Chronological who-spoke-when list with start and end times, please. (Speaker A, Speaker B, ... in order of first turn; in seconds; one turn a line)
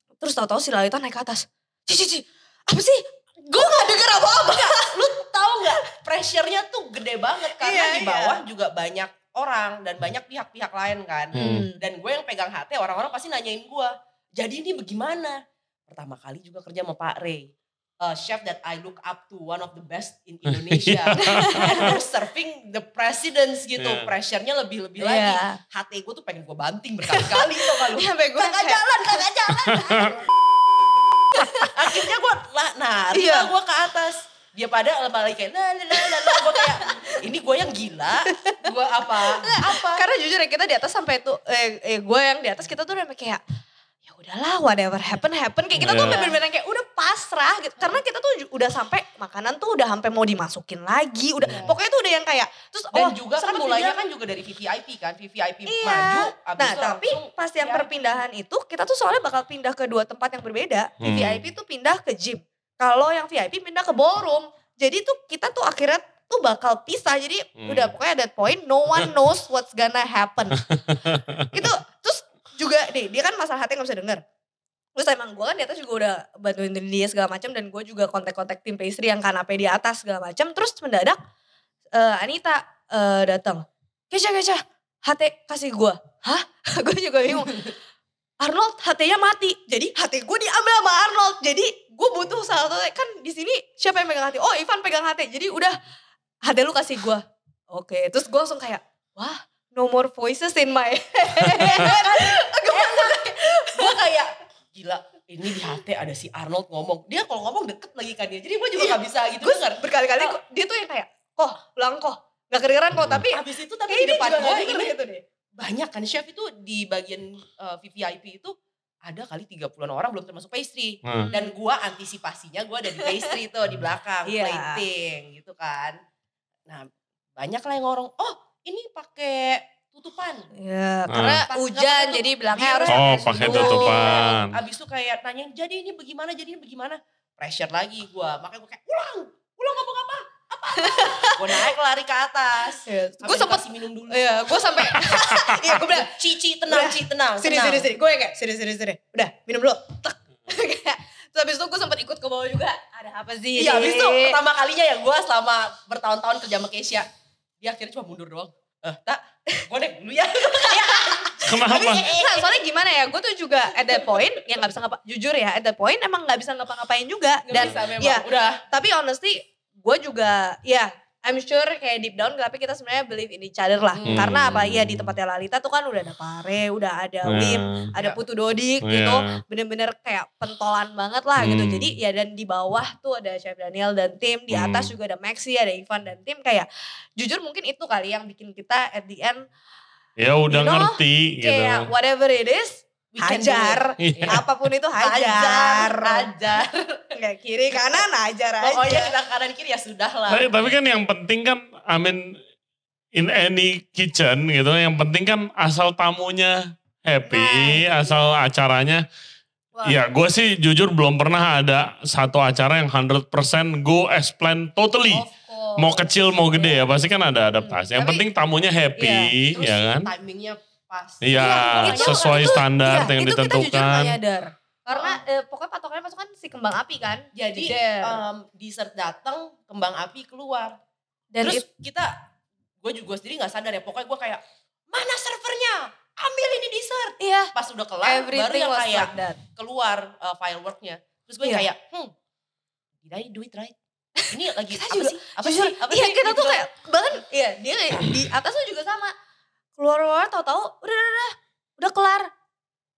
Speaker A: 0.2-5.1
Speaker B: 4.3-30.3
Speaker A: 7.6-8.4
Speaker C: 11.3-11.7
Speaker A: 11.3-11.8
Speaker C: 20.5-21.9
Speaker A: 21.2-22.0
Speaker C: 23.8-24.1
Speaker A: 25.0-25.6
Speaker A: 27.1-30.1
Speaker C: 29.7-30.1
Speaker A: 31.3-32.0
Speaker B: 31.4-40.1
Speaker A: 33.1-33.5
Speaker A: 36.0-37.2
Speaker A: 38.3-38.6
Speaker A: 39.2-43.4
Speaker A: 44.1-54.0
Speaker C: 45.8-46.2
Speaker B: 45.9-46.4
Speaker B: 51.4-51.8
Speaker B: 52.9-58.2
Speaker A: 55.7-70.6
Speaker C: 61.0-61.5
Speaker C: 67.6-67.9
Speaker C: 70.6-71.5
Speaker A: 71.5-74.2
Speaker A: 75.0-81.2
Speaker A: 81.9-87.8
Speaker A: 88.4-95.8
Speaker A: 96.5-104.0
Speaker B: 101.6-110.4
Speaker A: 108.8-115.2
Speaker B: 113.3-114.9
Speaker B: 115.6-118.5
Speaker B: 119.0-126.0
Speaker C: 121.0-121.3
Speaker A: 121.2-121.5
Speaker A: 123.0-123.3
Speaker A: 124.3-124.8
Speaker B: 126.7-130.5
Speaker A: 130.6-134.3
Speaker C: 131.1-131.4
Speaker B: 131.5-147.9
Speaker C: 132.9-134.6
Speaker A: 140.8-141.7
Speaker A: 142.9-154.4
Speaker B: 153.6-157.1
Speaker B: 157.6-162.6
Speaker A: 160.5-189.5
Speaker C: 161.5-162.1
Speaker B: 163.8-164.4
Speaker B: 167.5-168.6
Speaker B: 173.9-174.3
Speaker C: 174.0-175.2
Speaker C: 177.2-177.9
Speaker B: 177.9-178.2
Speaker C: 178.8-179.4
Speaker C: 181.4-182.0
Speaker C: 184.5-184.9
Speaker C: 190.2-191.9
Speaker A: 190.5-199.1
Speaker B: 193.1-194.4
Speaker C: 194.0-194.4
Speaker B: 195.0-197.1
Speaker B: 197.7-198.0
Speaker B: 198.6-200.7
Speaker C: 200.3-202.4
Speaker C: 203.1-209.0
Speaker A: 207.3-208.4
Speaker C: 209.8-220.1
Speaker A: 215.1-216.9
Speaker A: 217.5-218.2
Speaker A: 219.0-219.3
Speaker B: 219.5-222.6
Speaker C: 221.2-224.2
Speaker A: 221.4-228.2
Speaker B: 224.9-225.2
Speaker B: 227.3-230.8
Speaker A: 231.3-231.7
Speaker B: 231.4-232.2
Speaker B: 232.8-242.1
Speaker A: 237.2-239.4
Speaker B: 243.1-243.8
Speaker A: 244.2-249.1
Speaker B: 244.3-246.6
Speaker A: 249.8-252.3